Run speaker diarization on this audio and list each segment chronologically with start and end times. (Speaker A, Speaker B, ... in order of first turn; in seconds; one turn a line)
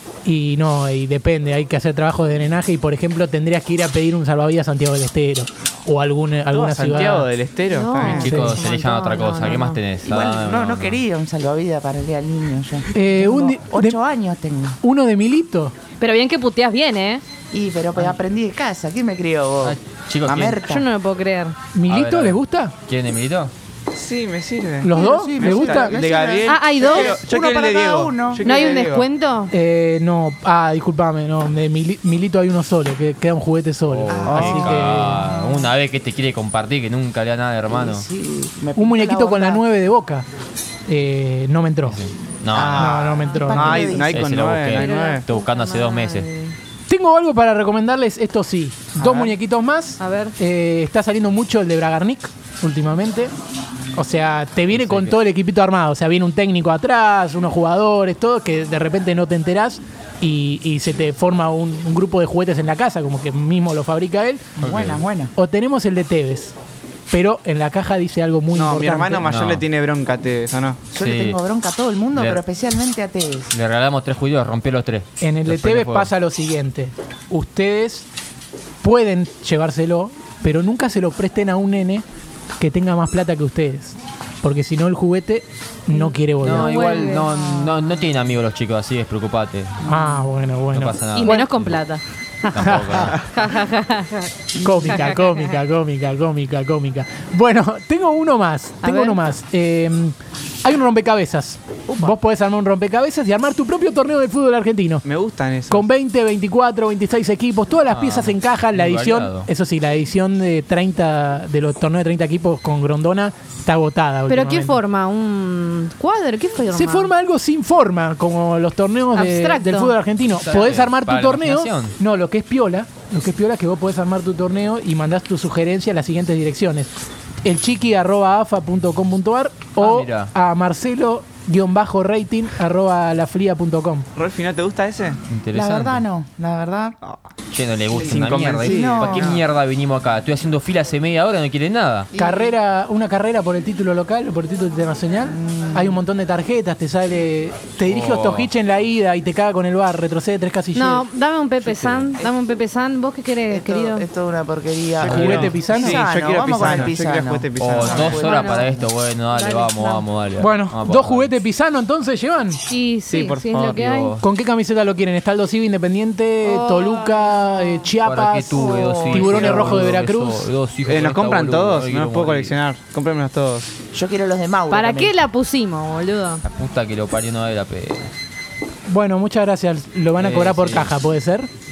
Speaker A: 0.2-7.3
Speaker B: 6.5-8.5
Speaker C: 7.7-9.8
Speaker A: 8.0-8.6
Speaker D: 8.2-11.0
Speaker E: 9.4-14.8
Speaker A: 12.9-14.0
Speaker A: 14.8-15.7
Speaker C: 16.0-17.2
Speaker E: 17.5-20.9
Speaker D: 19.6-20.6
Speaker C: 20.6-21.5
Speaker A: 21.7-22.7
Speaker D: 21.9-23.5
Speaker B: 23.9-29.1
Speaker A: 24.8-26.0
Speaker E: 24.9-28.8
Speaker C: 26.4-27.2
Speaker C: 28.4-29.5
Speaker A: 29.5-35.2
Speaker D: 33.9-38.0
Speaker E: 34.1-35.7
Speaker B: 34.3-35.0
Speaker E: 37.7-39.6
Speaker A: 38.7-40.2
Speaker A: 40.9-42.0
Speaker D: 41.9-43.0
Speaker E: 42.5-44.3
Speaker B: 42.6-45.2
Speaker A: 42.7-44.0
Speaker D: 44.0-46.3
Speaker C: 44.7-46.5
Speaker A: 46.9-53.3
Speaker B: 49.0-49.3
Speaker C: 50.0-50.3
Speaker A: 53.9-64.5
Speaker D: 54.7-55.2
Speaker D: 64.6-65.0
Speaker E: 64.6-65.3
Speaker A: 65.3-66.5
Speaker A: 67.1-69.2
Speaker B: 68.5-70.9
Speaker D: 69.2-69.6
Speaker E: 70.9-73.5
Speaker D: 71.0-71.4
Speaker D: 72.1-72.4
Speaker D: 73.5-76.1
Speaker A: 75.2-78.0
Speaker A: 78.8-82.0
Speaker A: 82.6-86.9
Speaker C: 85.9-87.3
Speaker D: 86.4-89.8
Speaker E: 87.2-87.8
Speaker A: 89.8-91.5
Speaker D: 90.7-91.8
Speaker C: 91.1-94.3
Speaker D: 92.5-93.2
Speaker A: 92.5-93.2
Speaker A: 94.5-105.0
Speaker C: 94.8-95.5
Speaker C: 98.8-99.3
Speaker E: 101.9-102.1
Speaker B: 105.0-105.9
Speaker A: 105.7-114.8
Speaker D: 107.9-109.5
Speaker C: 114.3-117.1
Speaker A: 116.7-126.9
Speaker C: 119.1-120.0
Speaker D: 120.3-122.0
Speaker A: 127.4-134.1
Speaker D: 129.8-130.3
Speaker B: 134.2-135.2
Speaker D: 135.3-136.0
Speaker E: 135.5-137.0
Speaker D: 137.5-142.1
Speaker B: 137.9-139.4
Speaker E: 138.6-139.4
Speaker E: 142.1-142.5
Speaker A: 142.2-151.0
Speaker E: 145.3-146.0
Speaker D: 147.8-148.5
Speaker C: 150.7-154.1
Speaker B: 151.6-151.9
Speaker E: 153.5-158.8
Speaker A: 155.0-156.1
Speaker D: 155.0-155.6
Speaker B: 155.2-158.2
Speaker D: 157.6-161.3
Speaker C: 158.1-158.7
Speaker C: 159.3-160.0
Speaker A: 160.4-162.6
Speaker C: 162.7-164.2
Speaker B: 163.1-163.8
Speaker D: 163.7-164.2
Speaker A: 164.2-170.5
Speaker C: 166.4-167.8
Speaker D: 168.0-172.5
Speaker C: 168.5-169.0
Speaker E: 168.6-169.3
Speaker B: 169.2-169.9
Speaker B: 170.8-173.8
Speaker E: 173.9-175.1
Speaker C: 174.7-176.4
Speaker D: 176.4-178.1
Speaker A: 178.9-181.5
Speaker D: 180.2-180.9